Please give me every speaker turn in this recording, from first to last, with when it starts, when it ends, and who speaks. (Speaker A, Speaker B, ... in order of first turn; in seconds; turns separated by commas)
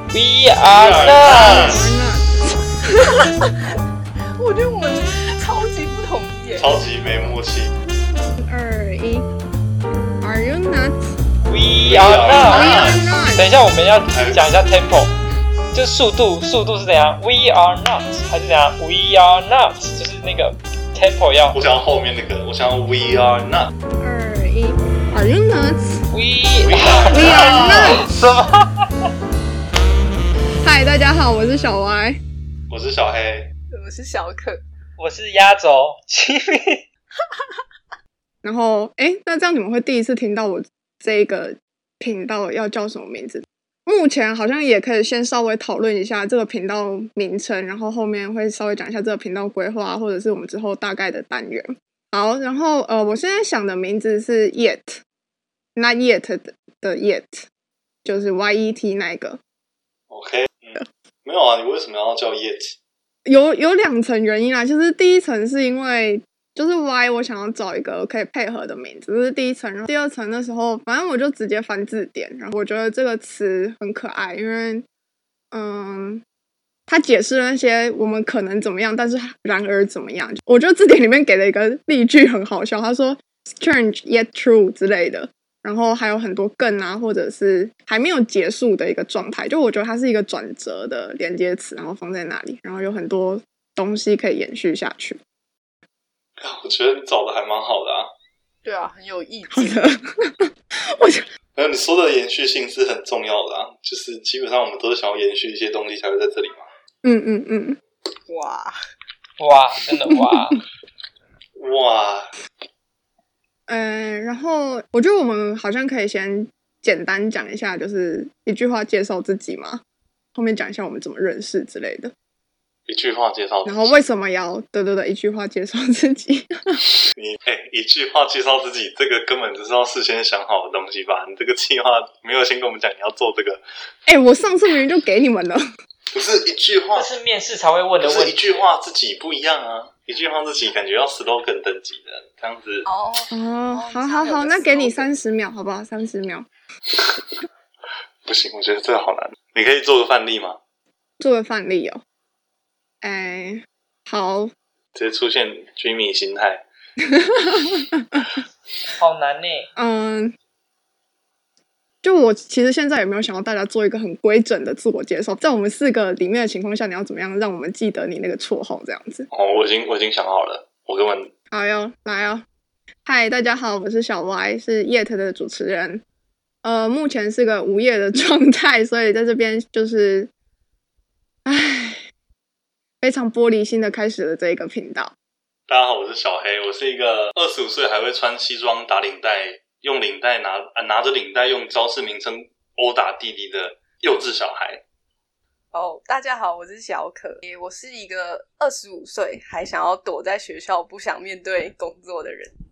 Speaker A: 0.1-1.8, Speaker B: 0.7-1.9, Speaker C: 1.2-3.3, Speaker D: 3.2-3.5, Speaker D: 4.4-6.9, Speaker B: 6.6-7.7, Speaker C: 8.3-9.3, Speaker C: 10.2-11.1, Speaker A: 11.5-15.1, Speaker B: 11.8-13.1, Speaker C: 12.4-13.5, Speaker B: 14.1-14.6, Speaker A: 15.7-21.6, Speaker B: 21.5-23.7, Speaker C: 24.0-26.1, Speaker A: 26.1-28.9, Speaker B: 26.6-28.1, Speaker C: 27.1-28.1, Speaker C: 30.6-32.2, Speaker B: 32.7-33.5, Speaker D: 33.7-34.6, Speaker A: 35.0-36.8, Speaker C: 38.4-55.0, Speaker C: 55.8-57.5, Speaker C: 58.0-59.4, Speaker B: 60.1-62.8, Speaker C: 63.3-74.8, Speaker C: 75.5-76.2, Speaker C: 76.9-95.2, Speaker B: 96.4-98.1, Speaker D: 98.6-99.8, Speaker C: 99.5-101.3, Speaker B: 101.6-106.7, Speaker C: 107.0-107.8, Speaker D: 108.3-108.8, Speaker A: 109.4-110.6, Speaker C: 109.9-110.5, Speaker B: 111.6-112.3, Speaker C: 113.7-119.8, Speaker C: 120.3-122.1, Speaker B: 122.9-124.0, Speaker C: 123.7-126.8, Speaker B: 127.1-133.6, Speaker C: 134.1-135.6, Speaker B: 136.1-137.1, Speaker A: 136.9-138.7, Speaker B: 138.0-142.9, Speaker D: 142.9-145.1, Speaker C: 143.3-146.5, Speaker B: 146.9-147.2, Speaker B: 148.2-150.6, Speaker C: 151.2-152.0, Speaker C: 153.0-154.5, Speaker B: 154.9-156.7, Speaker C: 157.1-158.2, Speaker A: 159.0-159.7, Speaker C: 159.8-160.3, Speaker C: 162.0-169.3, Speaker B: 169.3-171.3, Speaker C: 171.5-172.4, Speaker C: 173.1-176.0, Speaker C: 176.6-180.3, Speaker C: 181.5-182.0, Speaker C: 183.0-185.1, Speaker B: 185.7-194.8, Speaker D: 195.7-202.5